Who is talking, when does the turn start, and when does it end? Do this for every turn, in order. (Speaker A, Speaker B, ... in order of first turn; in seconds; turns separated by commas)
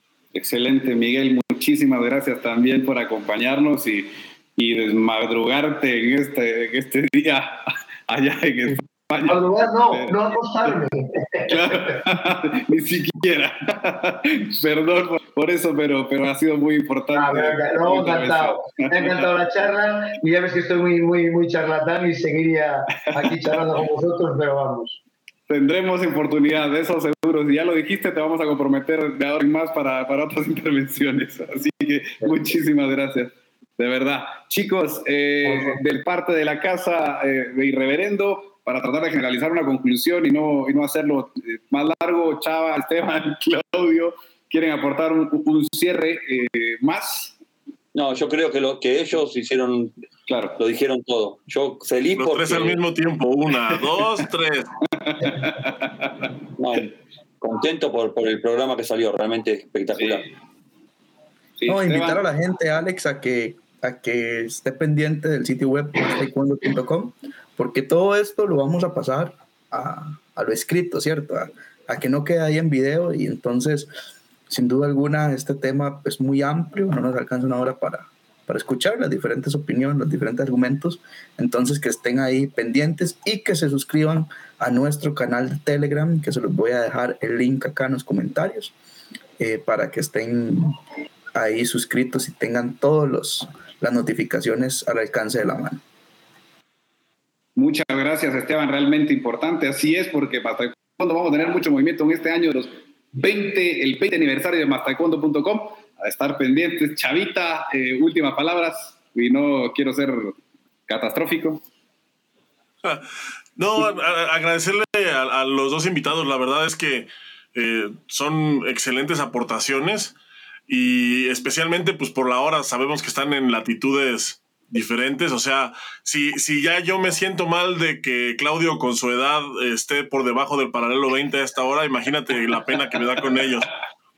Speaker A: 0.3-10.1, Speaker B: 9.2-12.0, Speaker A: 11.5-19.3, Speaker B: 17.1-25.0, Speaker A: 23.1-23.4, Speaker A: 25.5-47.3, Speaker B: 35.5-35.8, Speaker C: 47.9-49.9, Speaker A: 50.3-50.6, Speaker C: 50.6-52.8, Speaker D: 52.1-54.7, Speaker A: 53.7-54.2, Speaker A: 55.0-56.3, Speaker C: 56.6-60.3, Speaker A: 60.0-60.3, Speaker A: 61.6-62.2, Speaker E: 61.7-73.9, Speaker E: 74.5-88.7, Speaker E: 89.4-90.8, Speaker E: 91.3-95.8, Speaker A: 97.5-110.3, Speaker A: 110.9-111.6, Speaker D: 112.8-120.1, Speaker D: 120.7-133.7